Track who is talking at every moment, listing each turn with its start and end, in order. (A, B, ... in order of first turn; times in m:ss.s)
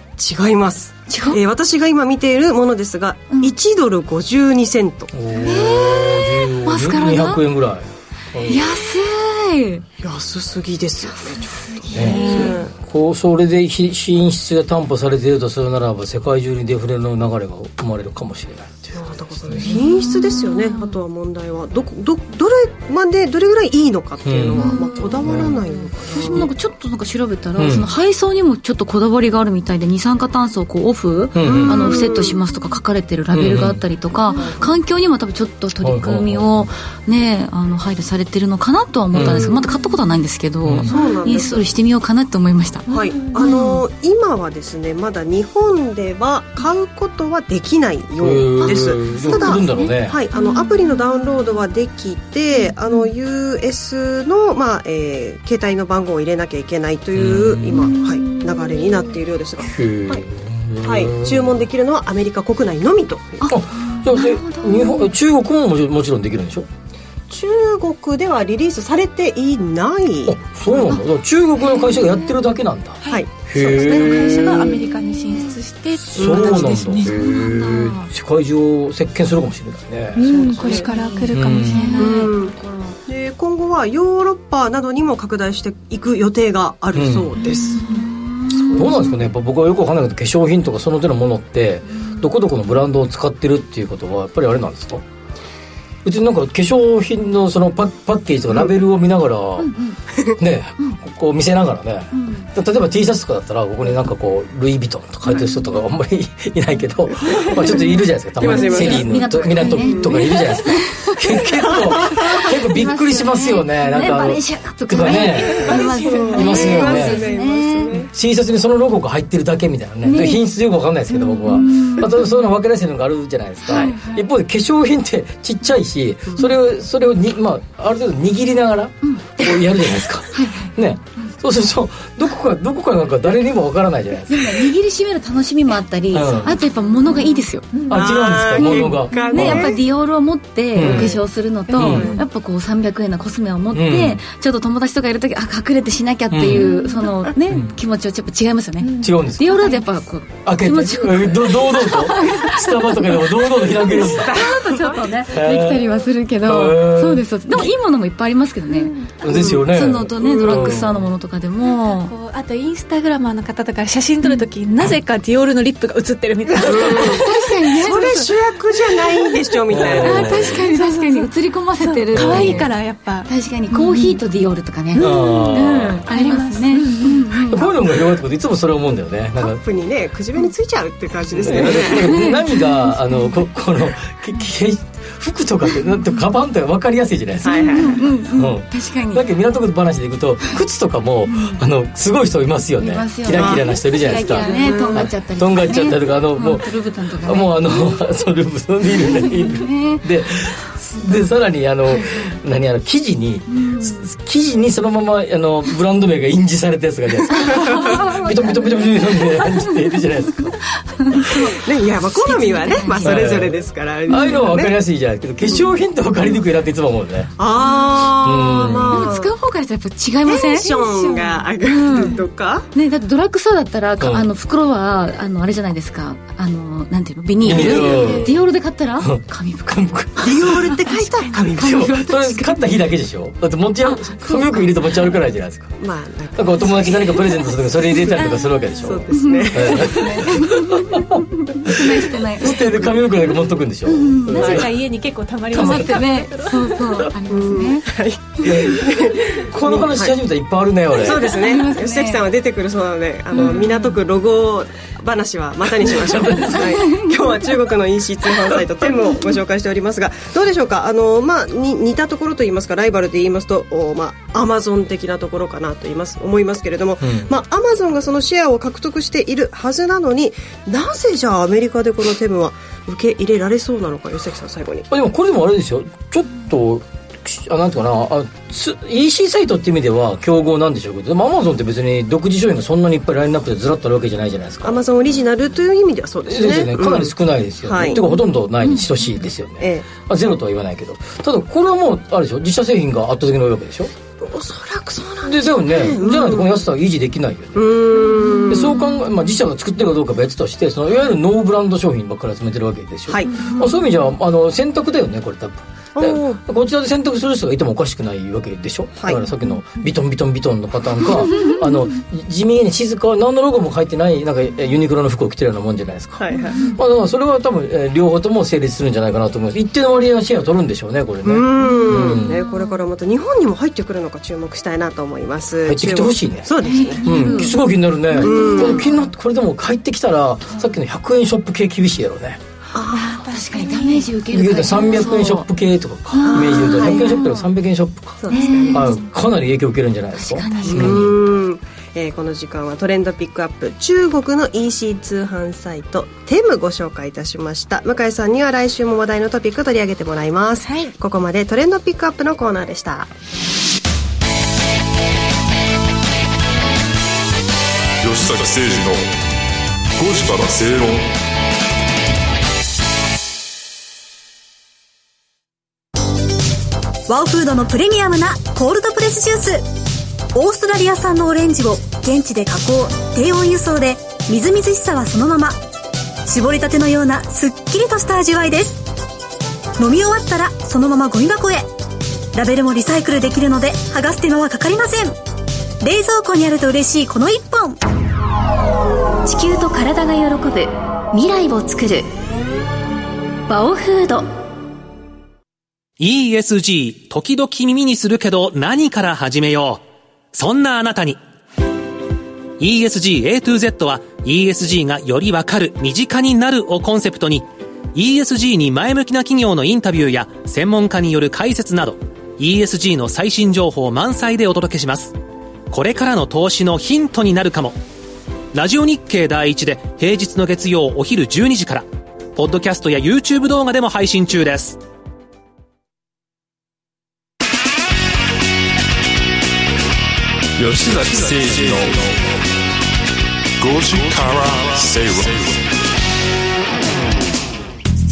0:00.2-0:05.1 A
0:01.1-0:01.4 B
0:05.1-0:08.8 C
0:05.3-0:07.4 B
0:08.4-0:09.8 B
0:10.0-0:12.7 A
0:11.0-0:12.6 B
0:11.9-0:19.7 C
0:12.0-0:12.5 D
0:19.0-0:26.5 A
0:19.6-0:20.8 D
0:19.6-0:20.6 B
0:24.2-0:25.6 C
0:24.6-0:43.8 B
0:27.6-0:27.9 C
0:31.3-0:32.0 C
0:31.4-0:32.4 A
0:33.3-0:33.8 C
0:34.3-0:34.6 A
0:35.8-0:36.7 C
0:39.1-0:39.6 C
0:40.6-0:40.9 C
0:40.9-0:41.7 A
0:40.9-0:41.4 D
0:42.9-0:43.7 D
0:42.9-1:00.2 A
0:48.2-0:50.2 C
0:48.7-0:49.9 B
0:50.3-0:51.2 D
0:52.6-0:53.1 D
0:57.2-0:57.9 C
0:57.8-0:59.1 D
0:59.7-1:01.7 C
1:00.8-1:03.5 A
1:03.4-1:05.1 B
1:03.5-1:06.7 C
1:07.3-1:10.4 A
1:10.3-1:14.8 C
1:11.7-1:12.1 B
1:13.0-1:17.2 D
1:13.1-1:14.8 A
1:16.1-1:20.3 C
1:16.2-1:17.0 A
1:17.0-1:18.1 B
1:20.2-1:22.3 D
1:20.2-1:20.9 A
1:20.5-1:23.0 B
1:21.3-1:21.9 C
1:22.0-1:27.8 A
1:26.9-1:27.3 C
1:27.4-1:29.1 B
1:27.5-1:28.1 D
1:28.5-1:29.0 A
1:28.8-1:35.0 C
1:36.0-1:39.7 C
1:39.6-1:40.0 B
1:40.4-1:55.8 C
1:42.1-1:42.5 B
1:48.4-1:50.5 A
1:48.5-1:58.0 B
1:51.7-1:52.2 A
1:55.0-1:57.1 D
1:55.6-1:58.1 A
1:56.3-1:57.3 C
1:58.1-2:14.7 C
2:00.0-2:00.4 B
2:01.2-2:02.1 B
2:03.6-2:04.3 B
2:09.0-2:09.4 B
2:10.3-2:11.3 B
2:14.3-2:17.9 B
2:16.1-2:16.6 C
2:17.0-2:17.9 D
2:17.9-2:19.8 C
2:17.9-2:19.8 A
2:18.6-2:42.1 B
2:20.8-2:21.2 C
2:20.8-2:21.1 A
2:21.7-2:22.3 D
2:21.7-2:22.1 C
2:21.8-2:22.1 A
2:23.7-2:24.2 C
2:26.3-2:26.7 C
2:26.5-2:27.1 D
2:28.8-2:29.8 D
2:29.0-2:29.7 C
2:30.4-2:34.3 C
2:34.2-2:34.9 A
2:35.3-2:35.9 C
2:36.4-2:37.7 C
2:38.7-2:39.3 D
2:39.2-2:41.1 C
2:39.2-2:39.6 A
2:40.2-2:40.7 A
2:41.6-2:48.3 D
2:46.6-2:48.0 B
2:46.6-2:47.2 A
2:47.8-2:50.6 A
2:49.7-2:50.7 C
2:49.9-2:54.2 D
2:50.0-2:52.7 B
2:52.1-2:52.7 C
2:53.2-2:57.7 B
2:54.9-2:57.7 D
2:55.0-2:56.0 C
2:57.5-2:59.6 C
2:59.4-3:02.2 A
3:01.3-3:30.6 C
3:01.6-3:02.4 B
3:07.4-3:08.1 A
3:07.7-3:09.2 B
3:11.3-3:11.6 B
3:12.8-3:17.9 B
3:13.3-3:15.1 A
3:19.1-3:20.0 B
3:21.9-3:22.3 B
3:23.5-3:24.0 B
3:27.4-3:28.0 A
3:27.4-3:28.6 B
3:30.9-3:33.2 B
3:31.3-3:34.8 A
3:33.0-3:37.3 C
3:37.4-3:39.3 A
3:38.2-3:39.1 C
3:38.9-3:40.7 B
3:40.3-3:42.7 A
3:40.8-3:41.4 D
3:41.6-3:42.2 B
3:42.7-3:50.2 B
3:44.0-3:44.3 C
3:47.4-3:48.4 C
3:47.5-3:48.2 A
3:47.8-3:48.2 D
3:49.0-3:50.8 C
3:50.2-3:52.0 A
3:51.5-3:55.8 C
3:51.6-3:52.5 B
3:53.8-3:54.8 B
3:55.8-3:58.2 A
3:56.4-4:04.7 C
3:58.8-4:00.2 A
3:59.2-4:02.9 B
4:03.9-4:04.6 B
4:04.3-4:07.0 D
4:05.5-4:05.9 C
4:05.5-4:07.9 B
4:07.3-4:10.2 A
4:08.4-4:11.4 C
4:10.9-4:34.9 A
4:11.2-4:12.2 B
4:13.4-4:13.6 B
4:15.8-4:16.8 C
4:16.8-4:17.1 B
4:27.0-4:27.3 C
4:34.9-4:44.8 C
4:44.6-4:48.0 A
4:46.2-4:53.9 C
4:49.6-4:49.9 A
4:54.2-4:56.5 A
4:55.2-4:57.8 C
4:57.6-4:58.8 A
4:58.5-5:16.2 C
5:03.1-5:03.5 A
5:06.0-5:06.4 A
5:16.2-5:16.7 A
5:16.8-5:22.4 C
5:21.2-5:27.5 A
5:21.6-5:22.7 B
5:25.6-5:26.5 C
5:26.6-5:27.6 B
5:27.0-5:32.4 C
5:28.1-5:29.1 B
5:28.2-5:28.9 A
5:32.7-5:33.2 A
5:33.0-5:35.5 B
5:33.0-5:34.2 D
5:34.3-5:41.1 C
5:36.2-5:36.6 D
5:36.3-5:37.2 A
5:36.8-5:37.4 B
5:38.2-5:38.9 A
5:38.3-5:39.0 B
5:40.1-5:41.1 B
5:40.5-5:40.9 D
5:40.7-5:53.1 A
5:50.6-5:50.9 D
5:58.0-5:59.0 E
6:00.0-6:01.1 E
6:07.1-6:09.6 F
6:10.3-6:15.6 F
6:16.3-6:18.8 F
6:19.8-6:21.7 F
6:22.3-6:25.2 F
6:25.8-6:27.8 F
6:29.2-6:32.1 G
6:33.5-6:34.3 G
6:36.0-6:39.8 H
6:40.3-6:41.2 H
6:42.6-6:55.2 H
6:55.7-6:57.8 H
6:58.5-7:04.8 H
7:10.6-7:12.2 E
7:13.6-7:15.6 E